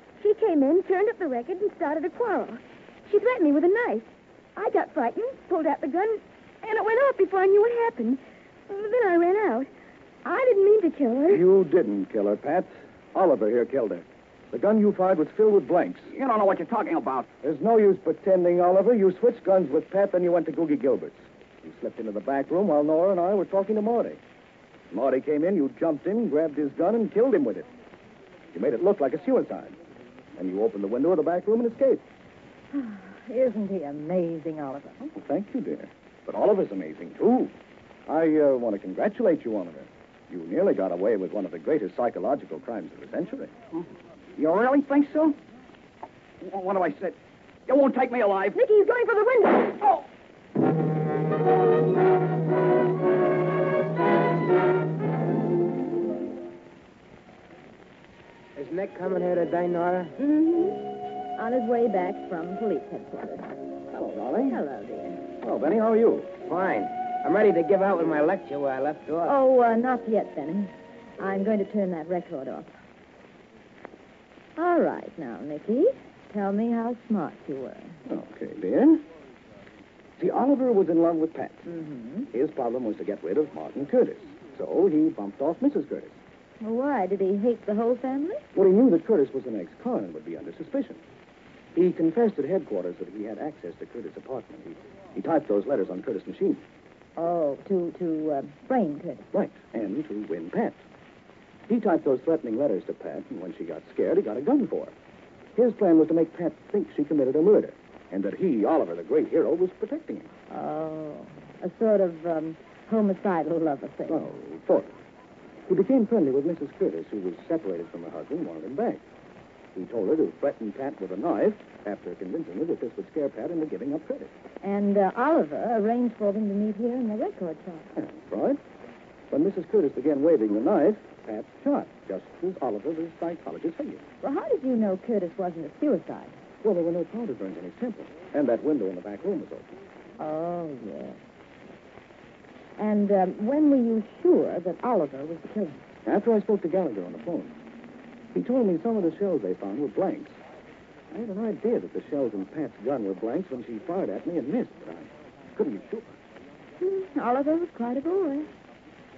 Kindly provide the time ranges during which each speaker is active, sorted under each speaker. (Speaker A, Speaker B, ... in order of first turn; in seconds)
Speaker A: 0.2-9.7, 10.2-11.4
Speaker B: 11.3-16.1, 17.4-24.2, 24.9-27.7, 28.5-29.8, 30.4-32.0, 35.0-37.5, 38.1-43.5, 63.9-64.6, 65.4-66.3, 78.1-79.0, 80.2-81.7, 82.3-86.2, 88.5-91.0, 91.7-96.6, 99.3-100.8, 101.7-104.9, 105.5-110.3, 114.1-114.9, 115.7-119.0, 119.8-124.3, 128.0-128.6, 129.3-134.0, 136.6-139.7, 146.1-147.5, 148.3-150.4, 151.1-156.1
Speaker C: 16.1-17.3, 43.7-45.4, 46.4-48.6
Speaker D: 32.7-35.0, 48.5-49.8, 60.2-63.5, 64.5-65.2, 69.3-72.7, 74.6-78.0, 81.7-82.3, 86.6-88.5, 97.2-99.3, 110.5-114.3, 124.6-127.9, 134.2-136.3, 140.2-141.2, 142.8-145.8, 156.8-158.5
Speaker E: 58.6-60.1, 66.5-69.4